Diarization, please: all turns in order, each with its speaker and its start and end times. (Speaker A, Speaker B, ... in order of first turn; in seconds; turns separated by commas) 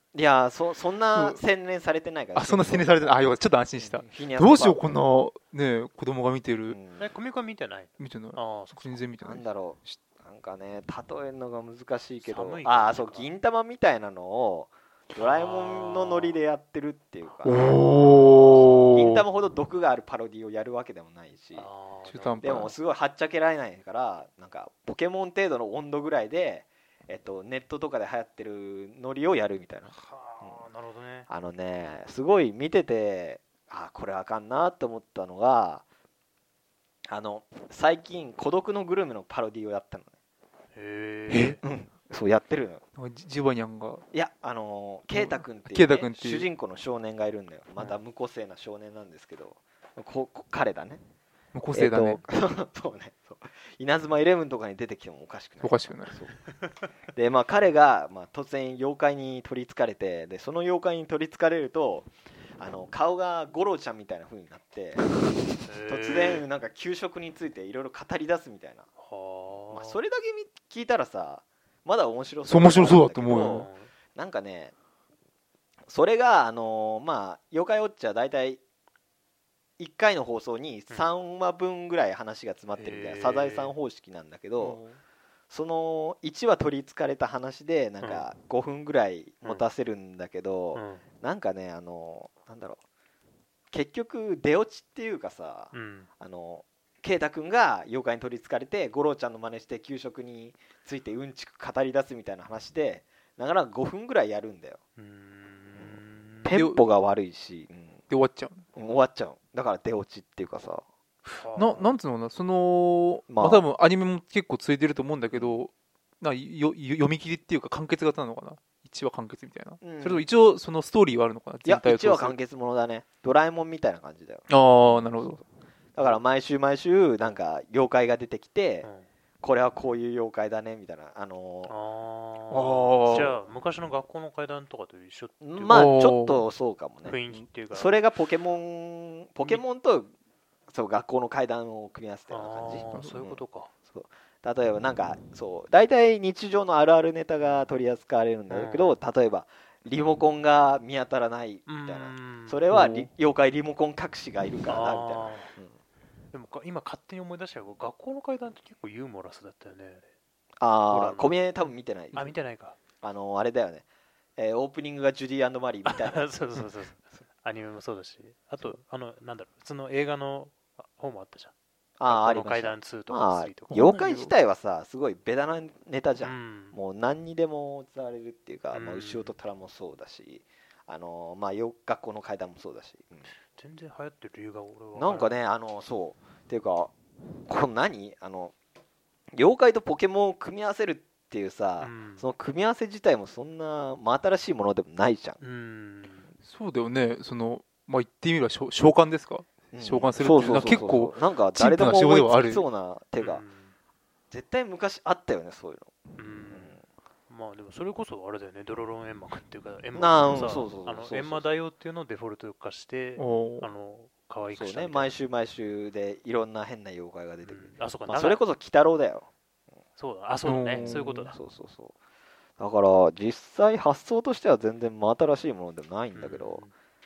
Speaker A: 0.1-3.2, Speaker B: 1.1-1.4, Speaker B: 2.3-6.8, Speaker A: 3.8-4.9, Speaker A: 6.7-7.1, Speaker C: 7.0-9.0, Speaker B: 8.0-10.0, Speaker A: 9.2-21.7, Speaker C: 12.2-13.3, Speaker C: 15.2-16.4, Speaker B: 17.4-19.2, Speaker C: 21.5-22.7, Speaker B: 22.1-22.7, Speaker A: 22.4-30.6, Speaker C: 29.9-31.3, Speaker A: 31.3-35.8, Speaker A: 37.1-40.1, Speaker C: 40.8-41.6, Speaker B: 41.3-41.6, Speaker A: 41.6-42.8, Speaker B: 43.0-44.0, Speaker A: 44.1-51.0, Speaker B: 45.1-46.5, Speaker B: 51.5-52.2, Speaker A: 51.7-56.3, Speaker B: 55.6-56.2, Speaker A: 57.1-65.0, Speaker C: 65.6-66.4, Speaker A: 65.9-68.9, Speaker C: 69.0-70.0, Speaker A: 69.7-74.7, Speaker B: 72.4-73.7, Speaker C: 73.3-73.9, Speaker A: 75.9-78.6, Speaker A: 79.8-84.8, Speaker C: 82.8-83.7, Speaker B: 84.6-85.0, Speaker A: 85.5-92.8, Speaker C: 88.0-88.3, Speaker C: 90.7-91.0, Speaker A: 93.7-104.8, Speaker C: 95.7-96.1, Speaker C: 105.0-106.6, Speaker A: 105.8-108.0, Speaker B: 106.5-106.8, Speaker B: 108.1-108.7, Speaker A: 108.8-110.8, Speaker C: 111.3-111.9, Speaker B: 111.5-122.4, Speaker A: 113.3-113.6, Speaker A: 115.3-115.6, Speaker A: 119.8-120.3, Speaker A: 121.6-125.4, Speaker B: 124.5-125.4, Speaker A: 125.9-128.9, Speaker C: 128.8-129.1, Speaker A: 129.4-131.7, Speaker C: 131.7-135.9, Speaker B: 132.5-133.3, Speaker A: 132.9-133.4, Speaker A: 135.4-137.2, Speaker B: 135.7-136.4, Speaker C: 137.0-138.0, Speaker A: 137.7-140.1, Speaker A: 140.7-155.8, Speaker C: 142.3-143.7, Speaker B: 142.9-143.2, Speaker C: 148.5-149.0, Speaker C: 151.7-152.8, Speaker B: 152.7-153.1, Speaker C: 154.7-155.5, Speaker C: 156.3-160.0, Speaker A: 160.6-162.3, Speaker C: 160.9-162.8, Speaker A: 163.0-163.8, Speaker A: 164.4-166.3, Speaker C: 165.9-171.5, Speaker A: 172.0-183.3, Speaker C: 172.1-173.9, Speaker B: 173.7-174.3, Speaker C: 176.2-176.8, Speaker C: 178.7-179.3, Speaker C: 183.4-185.3, Speaker A: 184.9-186.9, Speaker A: 187.5-188.5, Speaker A: 189.3-195.4, Speaker C: 191.8-192.2, Speaker C: 195.4-196.3, Speaker B: 196.4-202.6, Speaker A: 199.7-203.4, Speaker C: 203.2-203.8, Speaker A: 204.3-205.9, Speaker C: 206.2-215.1, Speaker A: 206.5-206.8, Speaker A: 209.9-211.5, Speaker B: 210.3-210.6, Speaker B: 213.2-213.7, Speaker A: 214.5-219.3, Speaker C: 217.4-218.4, Speaker C: 220.0-221.4, Speaker B: 220.4-221.3, Speaker A: 220.7-221.9, Speaker A: 222.6-226.6, Speaker C: 226.1-226.7